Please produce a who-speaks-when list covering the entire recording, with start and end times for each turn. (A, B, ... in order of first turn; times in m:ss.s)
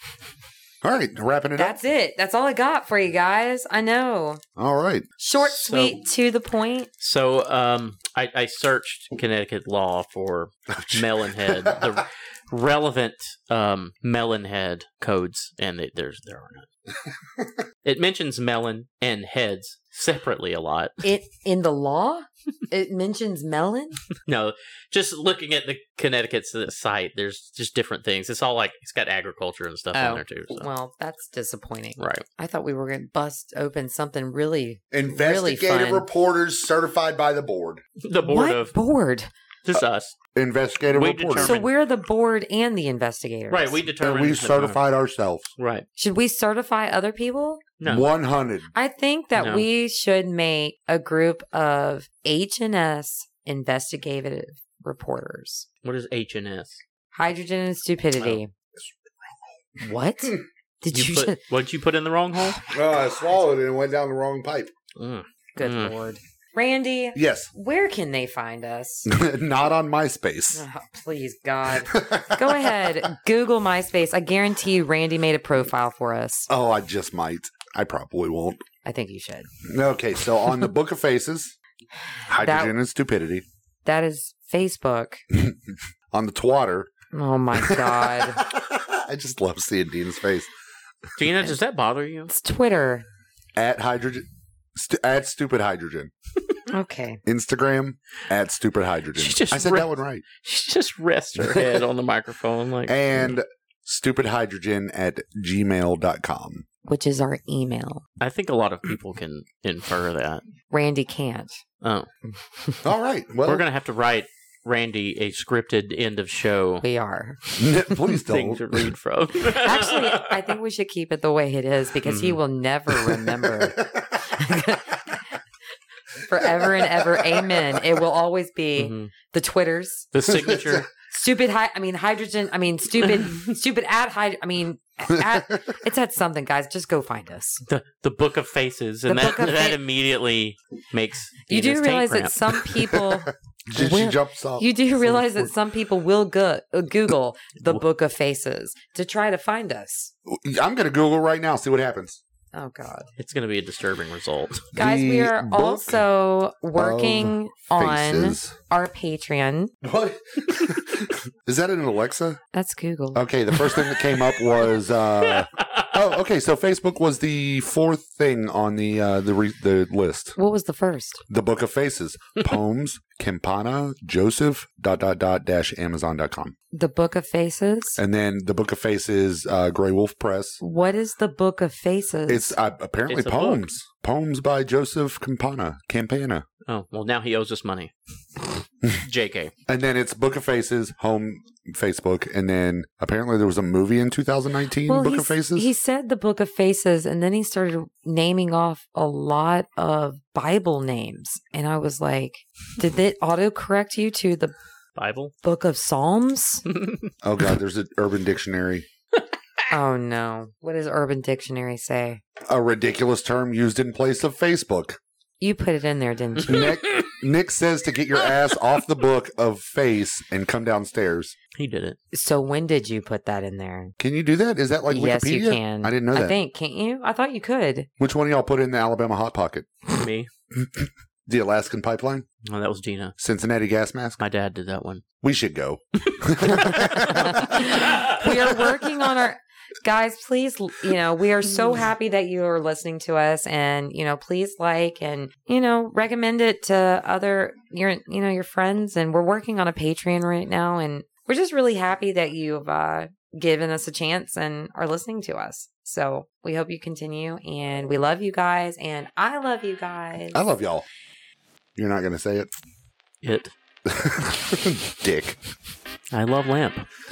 0:00.8-0:01.8 A
0:01.6-0:04.4 B
0:04.6-0:05.1 A
0:05.2-0:06.9 B
0:05.4-0:06.0 C
0:07.0-0:16.7 C
0:10.7-0:11.9 A
0:17.8-0:21.0 C
0:21.0-0:24.0 B
0:24.2-0:30.7 C
0:29.9-0:36.1 B
0:32.0-0:32.2 C
0:34.9-0:37.8 A
0:38.0-0:38.7 C
0:38.2-0:39.3 B
0:39.6-0:40.1 C
0:40.3-0:41.6 A
0:40.9-0:41.7 C
0:41.4-0:43.8 B
0:43.5-0:44.8 C
0:44.0-0:45.5 A
0:45.6-0:45.9 C
0:46.0-0:47.6 B
0:47.8-0:48.1 C
0:47.9-0:48.7 A
0:48.7-0:55.6 B
0:49.4-0:49.6 C
0:55.8-0:56.8 C
0:57.1-0:58.5 B
0:59.8-1:01.4 B
1:00.9-1:02.6 C
1:02.7-1:04.7 A
1:05.0-1:05.9 C
1:05.6-1:09.1 B
1:07.2-1:07.5 A
1:09.0-1:10.6 A
1:10.5-1:16.5 B
1:11.9-1:13.0 A
1:16.5-1:18.6 A
1:18.8-1:19.5 B
1:19.6-1:21.6 A
1:22.3-1:23.4 A
1:22.4-1:22.7 B
1:23.8-1:25.2 B
1:25.3-1:26.9 A
1:27.1-1:28.4 B
1:27.6-1:30.5 A
1:31.2-1:32.3 C
1:32.3-1:33.0 B
1:33.6-1:36.1 A
1:36.7-1:37.2 B
1:37.2-1:40.2 A
1:39.1-1:39.9 C
1:40.4-1:43.0 C
1:41.4-1:41.9 A
1:42.9-1:46.6 A
1:46.8-1:48.0 B
1:48.2-1:50.4 C
1:50.7-1:51.6 B
1:51.8-1:52.1 C
1:52.8-1:53.6 A
1:53.4-1:56.8 C
1:56.8-1:57.9 B
1:57.6-1:58.9 A
1:58.1-2:00.4 C
1:59.4-2:05.2 B
2:02.0-2:02.4 C
2:03.3-2:04.3 A
2:06.3-2:10.1 B
2:06.3-2:07.8 A
2:08.8-2:09.1 C
2:10.1-2:10.9 C
2:10.2-2:10.9 A
2:11.1-2:17.6 B
2:15.2-2:15.4 A
2:17.7-2:22.6 C
2:19.1-2:19.8 B
2:21.4-2:30.1 B
2:23.0-2:25.5 A
2:30.2-2:32.2 A
2:32.5-2:33.1 B
2:33.2-2:34.7 C
2:34.7-2:36.0 A
2:34.8-2:39.7 B
2:36.7-2:38.6 A
2:39.8-2:42.4 A
2:42.5-2:43.2 B
2:43.1-2:50.4 A
2:45.2-2:45.9 C
2:50.4-2:51.2 B
2:51.3-2:56.6 A
2:56.7-2:58.0 B
2:58.0-3:00.6 A
3:00.6-3:02.6 B
3:02.3-3:06.4 A
3:03.1-3:03.7 C
3:06.6-3:07.9 C
3:09.0-3:09.5 C
3:09.7-3:15.7 A
3:14.9-3:24.5 B
3:25.0-3:25.3 C
3:25.4-3:26.6 B
3:26.7-3:27.1 C
3:27.2-3:28.9 A
3:29.7-3:32.2 B
3:32.4-3:35.0 A
3:35.4-3:36.7 B
3:36.4-3:41.3 A
3:36.5-3:37.2 C
3:41.6-3:42.0 C
3:42.1-3:43.9 B
3:44.0-3:46.4 A
3:44.9-3:47.9 B
3:48.0-3:49.7 A
3:49.9-3:50.3 C
3:50.6-3:52.2 A
3:52.4-3:53.2 C
3:53.2-3:54.2 A
3:54.2-3:55.0 C
3:55.2-3:57.6 A
3:56.1-3:58.6 C
3:57.1-4:20.4 B
4:20.3-4:20.8 A
4:21.8-4:22.5 A
4:23.2-4:23.5 C
4:23.8-4:25.4 A
4:26.1-4:26.9 C